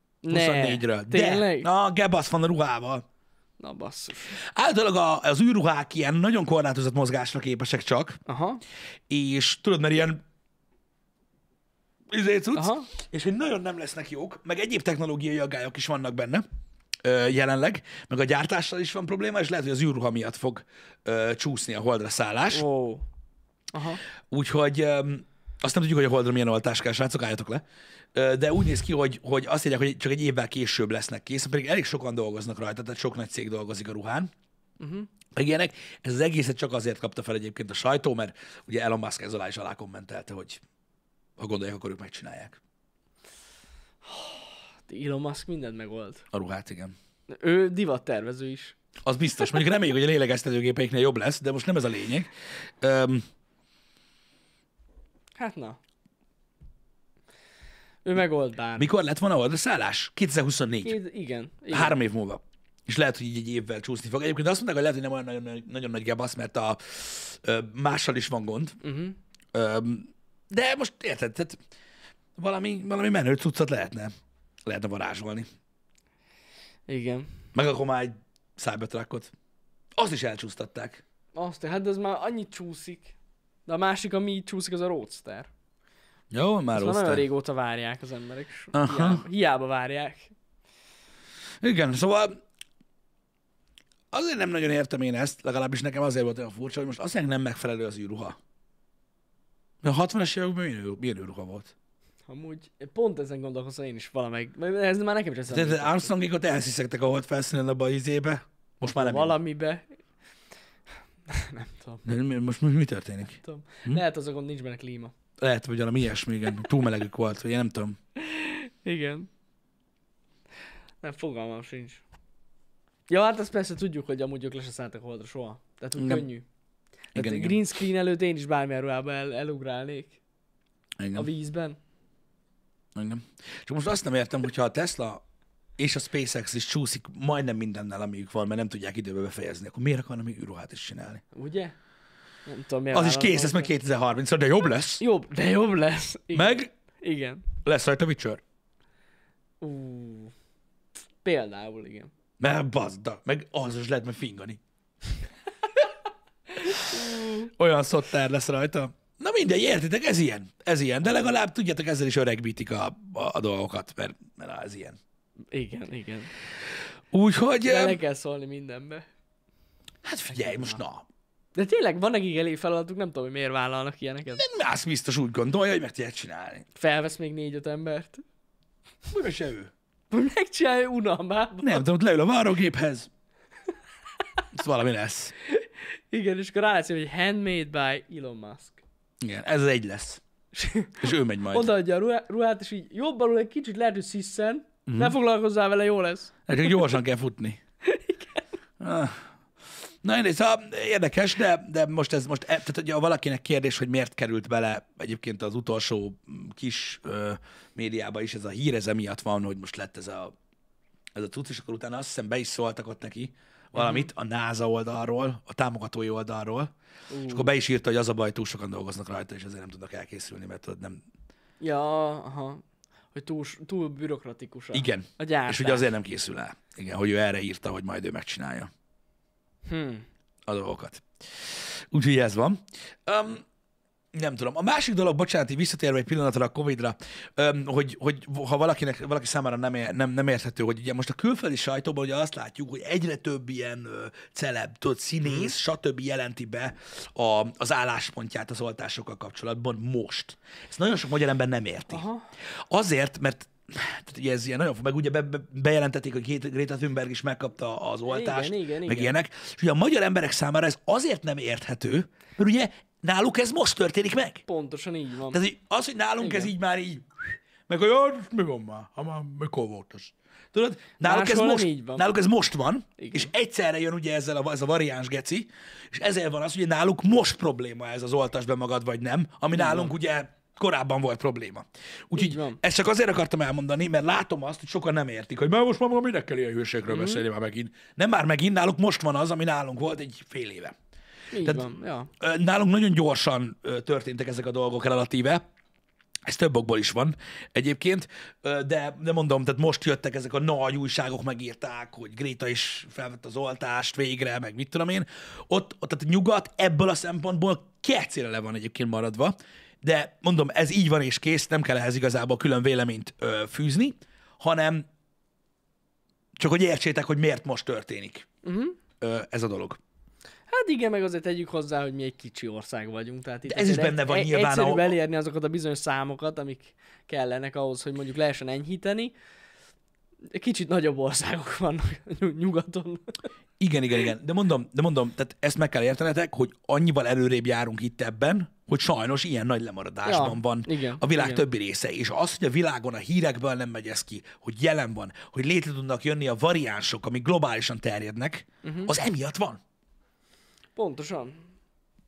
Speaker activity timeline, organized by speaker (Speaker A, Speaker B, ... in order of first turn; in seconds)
Speaker A: 0.2-1.7, 3.6-4.4, 8.3-8.6, 12.5-12.9, 22.5-23.0, 23.7-24.0, 34.8-35.1, 44.0-46.2, 47.3-48.8, 55.4-55.8, 58.0-58.9, 60.8-62.0, 68.8-69.2, 76.9-77.3, 81.3-83.1, 83.7-85.5, 86.7-90.3, 102.3-106.1, 108.8-109.9, 111.3-112.0, 113.4-115.1, 118.2-119.3, 121.0-122.0, 123.1-126.4, 127.1-130.2, 131.1-131.8, 141.3-141.7, 142.4-143.7, 145.0-147.5, 149.6-150.3, 151.2-152.1, 156.5-157.5, 165.5-166.3, 167.6-169.1, 170.4-170.8, 171.5-174.4, 176.7-178.2, 180.1-181.8, 185.4-188.8, 190.5-196.9, 197.8-198.4, 213.7-214.1, 217.1-217.5, 221.6-222.6, 223.1-225.9, 229.7-230.1, 245.2-245.5, 251.9-252.2, 258.1-259.2, 264.5-265.4, 266.2-266.5, 271.0-272.0, 273.0-273.3, 279.5-279.9, 282.1-282.6, 286.9-287.2, 291.3-292.1, 318.4-318.8, 320.5-329.1, 330.3-333.2, 340.0-341.4, 348.6-348.9, 350.8-351.4
Speaker B: 0.3-3.0, 4.3-8.2, 9.1-10.2, 12.1-16.4, 17.0-22.6, 24.3-34.3, 35.3-40.6, 41.4-42.6, 46.3-46.9, 49.0-53.2, 58.8-61.0, 61.7-68.8, 69.5-71.6, 72.4-74.1, 74.7-75.5, 77.5-79.3, 80.0-81.0, 86.3-87.2, 88.7-89.2, 91.6-92.4, 94.1-98.4, 99.8-101.7, 105.5-109.3, 112.0-114.0, 115.4-118.0, 126.0-126.2, 127.1-127.6, 131.0-131.3, 132.9-135.2, 135.8-141.2, 142.9-145.0, 146.3-146.7, 147.6-148.4, 152.4-154.6, 156.7-165.0, 167.1-168.0, 170.0-171.1, 174.3-176.7, 179.1-179.7, 181.6-183.1, 184.5-185.3, 189.2-190.2, 191.0-191.7, 194.9-195.2, 196.5-197.6, 198.8-199.3, 200.0-210.3, 211.1-216.7, 217.3-221.0, 224.7-228.7, 230.5-233.4, 234.1-252.0, 252.7-264.4, 265.3-290.8, 291.4-295.4, 296.2-314.9, 316.4-318.3, 319.0-319.8, 323.5-324.9, 333.6-349.6